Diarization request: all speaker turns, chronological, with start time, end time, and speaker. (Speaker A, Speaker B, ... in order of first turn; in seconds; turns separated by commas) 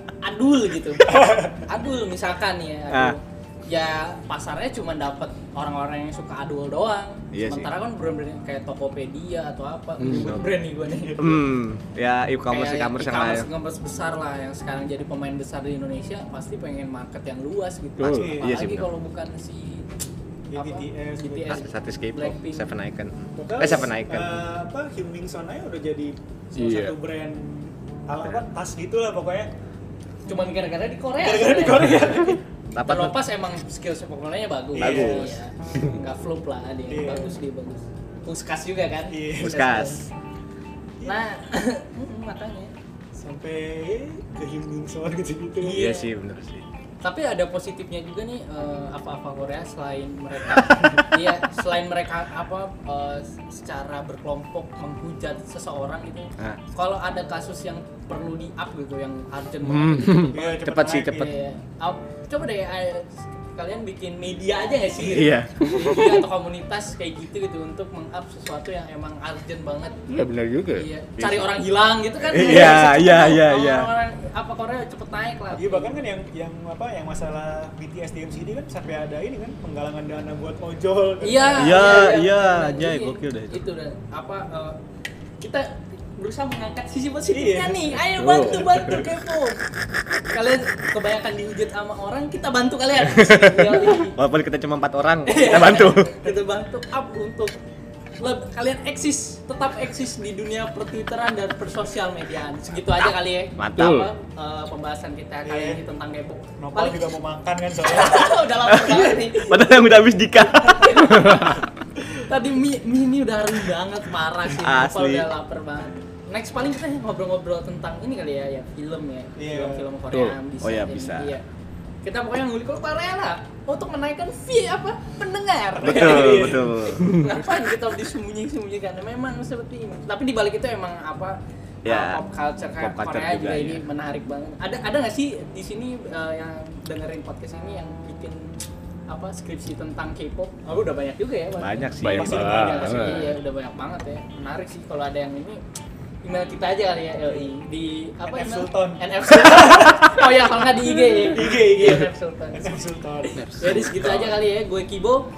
Speaker A: 0.2-11.4, Speaker B: 1.1-1.6, Speaker C: 2.9-3.1, Speaker C: 7.3-7.7, Speaker D: 10.0-10.3, Speaker C: 10.1-10.4, Speaker C: 11.2-13.5, Speaker A: 12.5-19.9, Speaker D: 18.0-18.3, Speaker B: 18.0-18.5, Speaker C: 18.4-18.9, Speaker B: 20.5-21.6, Speaker A: 20.5-22.7, Speaker C: 21.5-24.4, Speaker B: 23.4-29.5, Speaker D: 26.5-26.9, Speaker A: 30.2-40.0, Speaker B: 31.2-32.4, Speaker C: 32.7-33.2, Speaker B: 34.8-35.3, Speaker C: 34.8-35.4, Speaker B: 36.9-37.4, Speaker B: 39.1-40.0, Speaker C: 39.4-40.1, Speaker A: 41.0-42.7, Speaker B: 43.1-45.9, Speaker A: 45.6-46.1, Speaker C: 45.7-46.6, Speaker A: 47.0-70.1, Speaker D: 59.6-60.4, Speaker B: 60.3-61.3, Speaker C: 60.5-61.3, Speaker C: 65.0-66.2, Speaker D: 70.1-70.8, Speaker A: 70.8-75.9, Speaker C: 71.2-71.6, Speaker C: 72.2-73.9, Speaker B: 72.4-72.7, Speaker B: 75.5-82.1, Speaker A: 81.2-84.8, Speaker C: 81.6-83.6, Speaker A: 85.4-89.6, Speaker B: 87.3-88.0, Speaker D: 88.2-89.0, Speaker B: 88.7-89.0, Speaker A: 90.3-94.2, Speaker C: 93.0-96.1, Speaker A: 95.2-97.6, Speaker B: 95.7-96.1, Speaker A: 98.2-107.1, Speaker C: 103.6-104.1, Speaker D: 103.8-104.1, Speaker B: 105.4-105.8, Speaker B: 106.6-108.4, Speaker A: 107.8-109.8, Speaker C: 108.7-111.4, Speaker A: 110.7-121.4, Speaker C: 114.5-115.3, Speaker B: 119.4-119.9, Speaker C: 120.6-121.3, Speaker A: 122.0-138.5, Speaker B: 125.8-127.0, Speaker C: 125.8-127.0, Speaker C: 131.8-132.2, Speaker C: 132.8-133.8, Speaker A: 139.1-145.6, Speaker C: 141.6-142.4, Speaker D: 142.0-143.3, Speaker B: 142.2-143.2, Speaker C: 143.0-143.3, Speaker A: 146.2-155.3, Speaker B: 148.2-150.0, Speaker B: 151.2-153.4, Speaker D: 153.3-154.3